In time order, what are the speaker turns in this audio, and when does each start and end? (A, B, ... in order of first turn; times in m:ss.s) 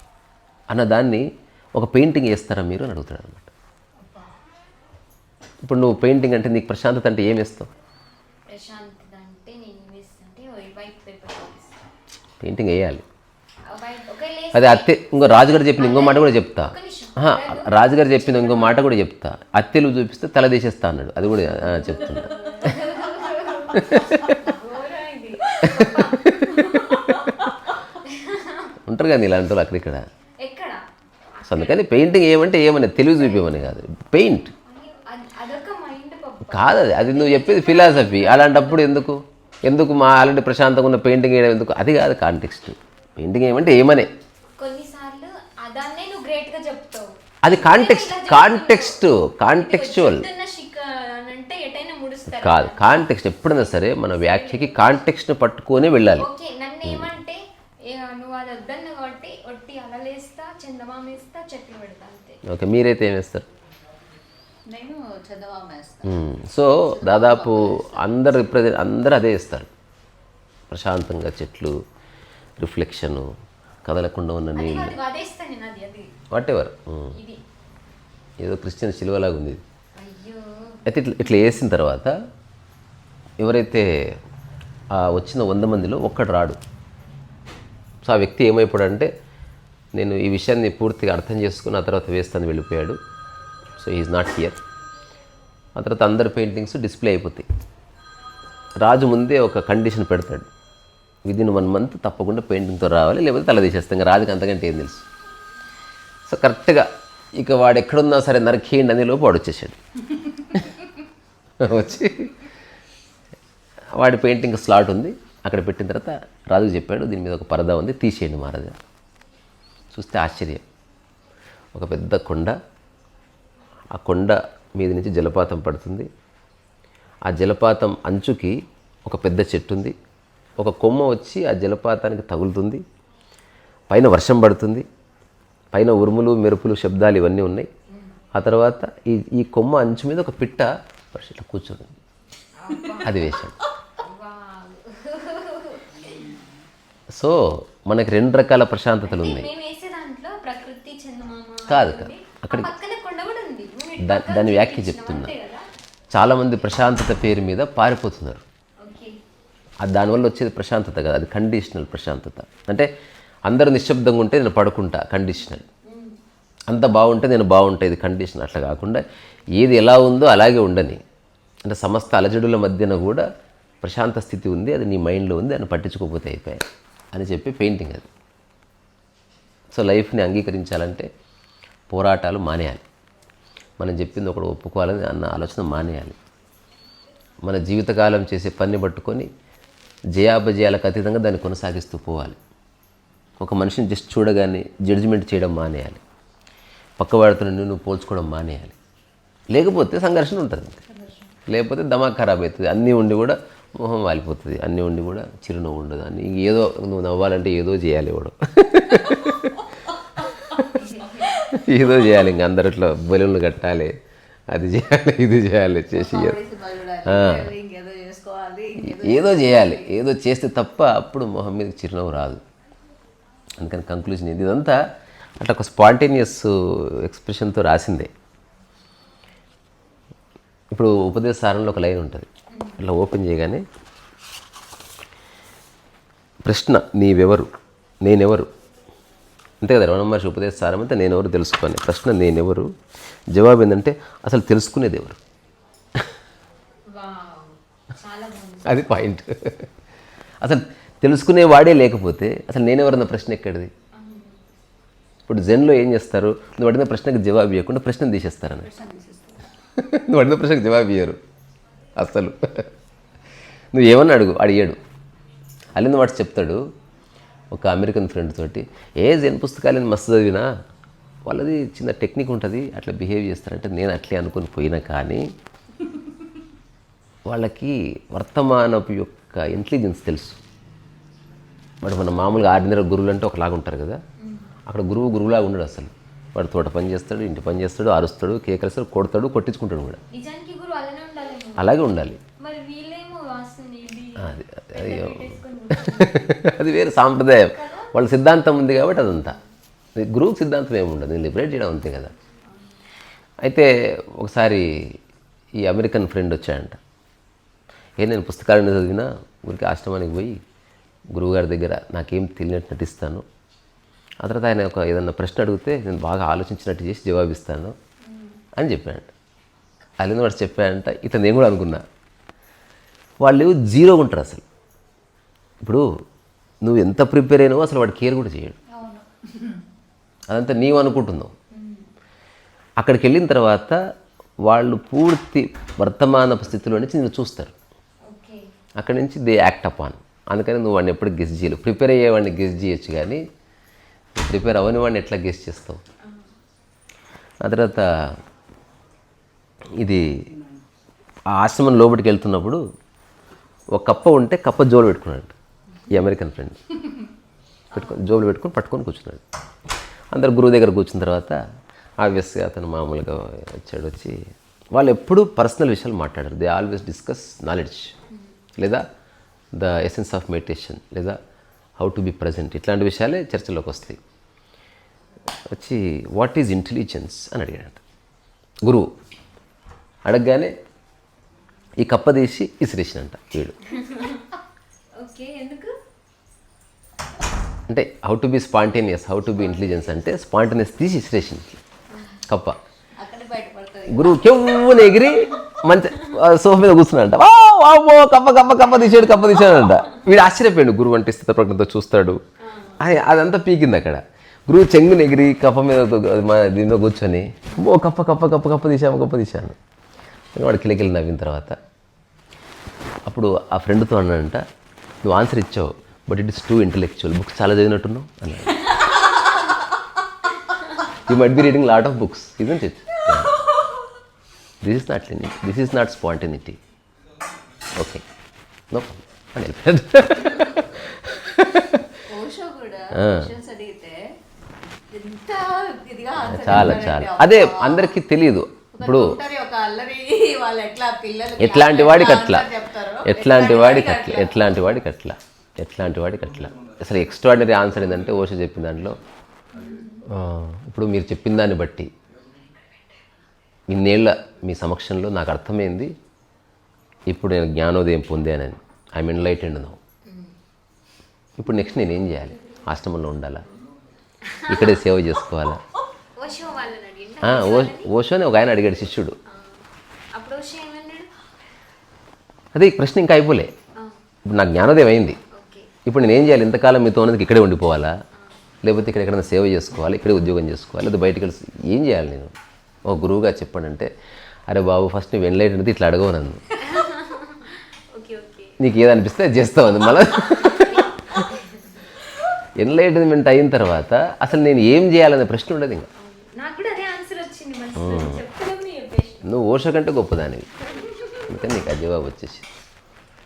0:00.7-0:03.5 A
0:04.0-0:04.3 B
0:05.6-0:07.7 A
0:08.5-0:11.8 B
0:12.4-0:13.0 A
0:13.7-0:18.9 B
0:14.5-0:22.3 A
0:21.4-0:28.7 B
0:23.7-0:24.4 A
0:25.6-0:27.3 A
0:28.8-0:30.0 A
0:30.4-0:30.8 B
0:31.4-0:31.8 B
0:31.5-0:34.5 A
0:33.2-0:33.5 B
0:34.6-0:39.0 B
0:36.4-0:44.1 A
0:44.6-0:55.1 B
0:47.4-0:50.3 A
0:52.4-0:56.3 A
0:56.2-1:02.4 B
0:56.8-0:57.1 A
1:02.4-1:03.5 A
1:04.7-1:06.2 C
1:06.0-1:09.7 A
1:06.8-1:08.1 C
1:10.7-1:11.7 A
1:12.6-1:13.3 A
1:13.8-1:15.0 A
1:14.5-1:16.1 B
1:16.3-1:17.2 A
1:17.1-1:17.4 B
1:18.4-1:19.6 A
1:20.0-1:20.8 B
1:20.8-1:22.1 A
1:23.4-1:23.9 A
1:25.0-1:26.6 A
1:28.0-1:29.1 A
1:30.0-1:33.0 A
1:33.8-1:34.6 A
1:35.8-1:37.5 A
1:38.8-1:40.5 A
1:41.2-1:45.0 A
1:46.3-1:49.8 A
1:51.6-1:52.3 A
1:54.0-1:58.8 A
1:59.9-2:00.6 A
2:01.7-2:02.5 A
2:03.9-2:06.1 A
2:07.3-2:10.0 A
2:10.6-2:12.8 A
2:13.9-2:14.8 A
2:15.7-2:17.7 A
2:18.3-2:22.0 A
2:22.6-2:23.4 B
2:23.0-2:23.6 A
2:24.0-2:26.0 B
2:27.1-2:29.5 A
2:29.0-2:35.7 B
2:31.7-2:32.7 A
2:34.0-2:35.3 A
2:36.1-2:38.4 A
2:38.8-2:39.2 B
2:39.8-2:42.9 A
2:43.5-2:45.6 A
2:45.8-2:46.2 B
2:46.7-2:49.0 A
2:49.6-2:51.0 A
2:51.6-2:53.2 A
2:53.8-2:58.1 A
2:59.7-3:01.1 A
3:01.9-3:02.8 A
3:03.8-3:06.2 A
3:07.4-3:09.3 A
3:10.1-3:12.4 A
3:13.4-3:16.0 A
3:17.0-3:18.7 A
3:19.5-3:20.8 A
3:20.9-3:21.3 C
3:21.5-3:29.6 A
3:30.3-3:30.6 A
3:30.6-3:31.3 B
3:31.3-3:33.9 A
3:34.5-3:36.4 A
3:35.9-3:39.9 C
3:37.0-3:37.5 A
3:38.8-3:42.4 A
3:43.6-3:44.8 A
3:45.4-3:48.1 A
3:50.7-3:52.3 A
3:52.5-3:52.8 B
3:52.8-3:53.6 A
3:56.4-3:57.5 A
3:58.0-3:58.5 A
3:59.6-4:02.7 A
4:03.3-4:05.2 A
4:06.9-4:08.9 B
4:08.6-4:09.6 A
4:10.4-4:13.7 A
4:13.9-4:14.4 B
4:15.3-4:18.7 A
4:18.6-4:19.4 C
4:19.8-4:21.2 A
4:22.0-4:22.6 A
4:23.7-4:24.8 A
4:25.8-4:26.6 A
4:27.5-4:30.5 A
4:31.3-4:35.3 A
4:37.3-4:40.4 A
4:41.8-4:44.0 A
4:44.2-4:44.5 B
4:44.7-4:50.0 A
4:50.1-4:54.2 B
4:51.6-4:52.2 A
4:54.2-4:59.4 A
4:54.7-4:56.4 B
4:57.4-4:57.9 B
4:59.1-4:59.4 B
5:00.0-5:02.1 A
5:03.4-5:04.7 A
5:05.6-5:06.8 A
5:08.0-5:10.4 A
5:11.1-5:13.2 A
5:14.2-5:17.7 A
5:18.0-5:18.4 B
5:18.6-5:19.1 A
5:20.0-5:21.8 A
5:23.2-5:24.4 A
5:26.6-5:28.6 A
5:28.7-5:29.6 C
5:30.3-5:31.3 A
5:31.5-5:31.9 B
5:32.8-5:33.8 A
5:34.4-5:37.5 A
5:38.0-5:38.5 B
5:38.8-5:43.2 A
5:44.2-5:45.8 A
5:47.4-5:47.9 A
5:49.8-5:50.1 A
5:51.3-5:52.6 A
5:53.7-5:55.3 A
5:55.9-5:56.6 A
5:57.7-5:59.2 A
6:00.1-6:01.4 A
6:02.0-6:04.2 A
6:04.7-6:07.9 A
6:08.6-6:08.8 A
6:09.5-6:11.2 A
6:11.8-6:14.0 A
6:15.5-6:17.8 A
6:18.6-6:18.9 A
6:20.0-6:20.5 A
6:21.8-6:23.6 A
6:23.7-6:24.3 B
6:25.0-6:25.7 B
6:27.7-6:31.6 A
6:31.9-6:32.2 B
6:32.3-6:32.6 A
6:33.0-6:34.4 C
6:33.9-6:42.2 A
6:42.4-6:42.8 B
6:42.8-6:49.6 A
6:50.3-6:51.6 A
6:53.1-6:54.4 A
6:55.0-6:58.7 A
7:01.0-7:03.4 A
7:04.6-7:06.6 A
7:07.8-7:08.0 A
7:08.7-7:11.9 A
7:12.0-7:14.0 C
7:12.9-7:13.3 A
7:14.9-7:17.9 C
7:16.2-7:19.2 A
7:18.7-7:24.7 C
7:21.4-7:22.5 A
7:23.0-7:29.0 A
7:29.6-7:30.0 B
7:30.0-7:31.9 A
7:33.7-7:35.9 A
7:37.1-7:39.8 A
7:40.0-7:40.3 B
7:41.4-7:43.4 A
7:44.2-7:44.8 B
7:44.5-7:45.6 A
7:46.2-7:47.9 B
7:47.2-7:49.2 A
7:49.3-7:49.6 B
7:50.1-7:51.1 B
7:52.5-7:53.5 A
7:54.3-7:55.2 A
7:55.3-7:55.7 B
7:55.8-7:57.9 A
7:58.6-8:02.3 A
8:02.8-8:03.9 A
8:04.5-8:06.5 A
8:06.6-8:08.6 B
8:08.6-8:11.2 A
8:10.2-8:11.9 B
8:12.6-8:15.9 A
8:16.0-8:19.3 B
8:17.8-8:18.2 A
8:19.2-8:20.5 A
8:20.7-8:21.3 B
8:21.3-8:22.4 A